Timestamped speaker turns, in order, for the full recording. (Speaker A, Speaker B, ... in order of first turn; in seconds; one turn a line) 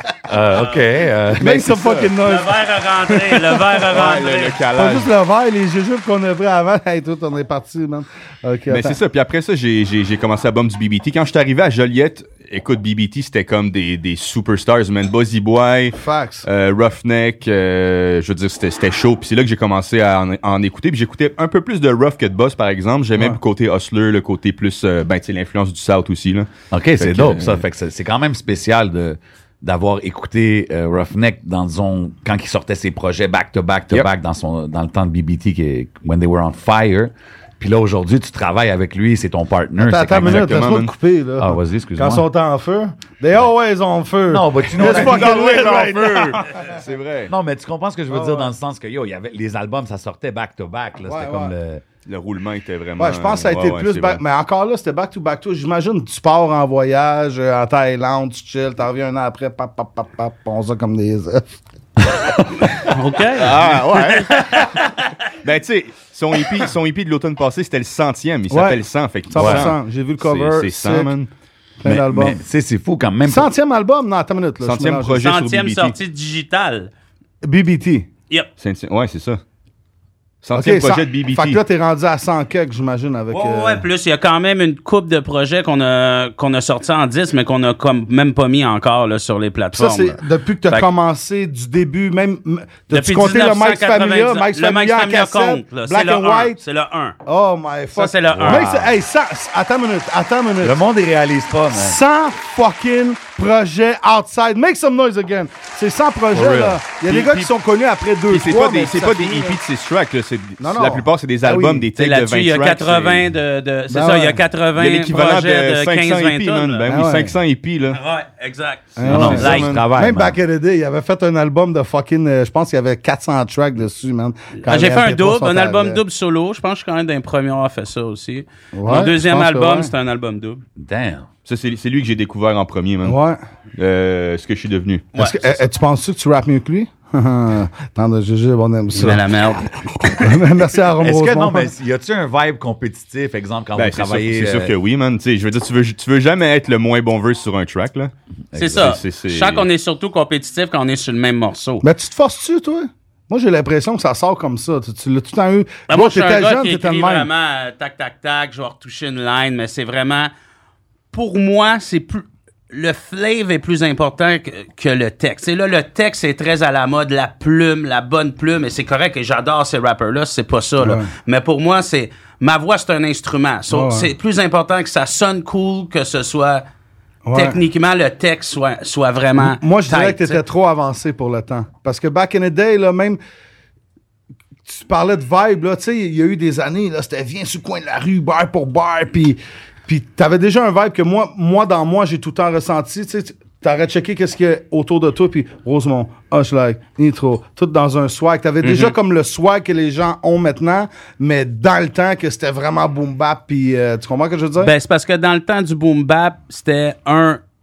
Speaker A: 0.3-1.7
Speaker B: 1.4-3.9
Speaker C: 1.5-2.1
Speaker D: 2.2-4.6
Speaker C: 3.9-5.1
Speaker B: 4.7-9.0
Speaker C: 8.7-27.6
Speaker B: 15.9-16.5
Speaker A: 26.7-40.6
Speaker B: 39.8-46.8
Speaker C: 40.2-40.9
Speaker A: 41.4-42.2
Speaker A: 44.3-45.6
Speaker C: 44.8-47.3
Speaker A: 47.3-51.8
Speaker B: 48.1-48.5
Speaker B: 51.0-51.5
Speaker C: 52.1-54.2
Speaker B: 53.0-61.4
Speaker D: 62.8-65.1
Speaker C: 63.4-64.8
Speaker C: 65.3-71.3
Speaker B: 68.5-68.8
Speaker B: 69.3-71.2
Speaker A: 69.4-69.7
Speaker B: 71.8-72.4
Speaker A: 71.8-73.5
Speaker B: 73.3-75.2
Speaker C: 74.6-76.0
Speaker D: 75.2-76.9
Speaker B: 77.4-78.1
Speaker C: 78.6-79.4
Speaker C: 80.4-81.6
Speaker B: 80.5-83.9
Speaker D: 83.3-90.9
Speaker B: 89.7-96.6
Speaker D: 92.9-97.2
Speaker B: 97.3-100.8
Speaker D: 98.0-98.7
Speaker A: 98.3-99.0
Speaker A: 100.6-102.0
Speaker B: 101.7-109.6
Speaker A: 106.3-106.8
Speaker C: 107.1-107.5
Speaker C: 108.3-113.3
Speaker B: 110.6-111.9
Speaker D: 112.0-116.8
Speaker B: 113.9-114.4
Speaker C: 114.8-118.0
Speaker B: 116.9-117.4
Speaker D: 117.9-119.7
Speaker B: 119.0-126.0
Speaker A: 119.0-120.4
Speaker C: 119.1-119.8
Speaker D: 124.6-130.6
Speaker B: 128.7-129.9
Speaker A: 130.8-131.3
Speaker C: 131.5-133.2
Speaker B: 133.0-133.4
Speaker C: 133.8-135.1
Speaker D: 135.1-135.6
Speaker B: 135.2-139.3
Speaker D: 138.9-140.3
Speaker B: 140.1-141.7
Speaker A: 141.0-144.7
Speaker C: 143.8-148.1
Speaker A: 148.5-149.0
Speaker D: 148.6-151.9
Speaker C: 148.8-149.7
Speaker B: 151.8-157.3
Speaker D: 155.9-160.3
Speaker D: 161.1-176.6
Speaker B: 170.8-171.1
Speaker B: 173.7-174.1
Speaker B: 177.3-177.6
Speaker D: 177.3-180.4
Speaker B: 179.4-183.2
Speaker B: 184.7-204.7
Speaker D: 198.6-198.9
Speaker D: 204.6-207.4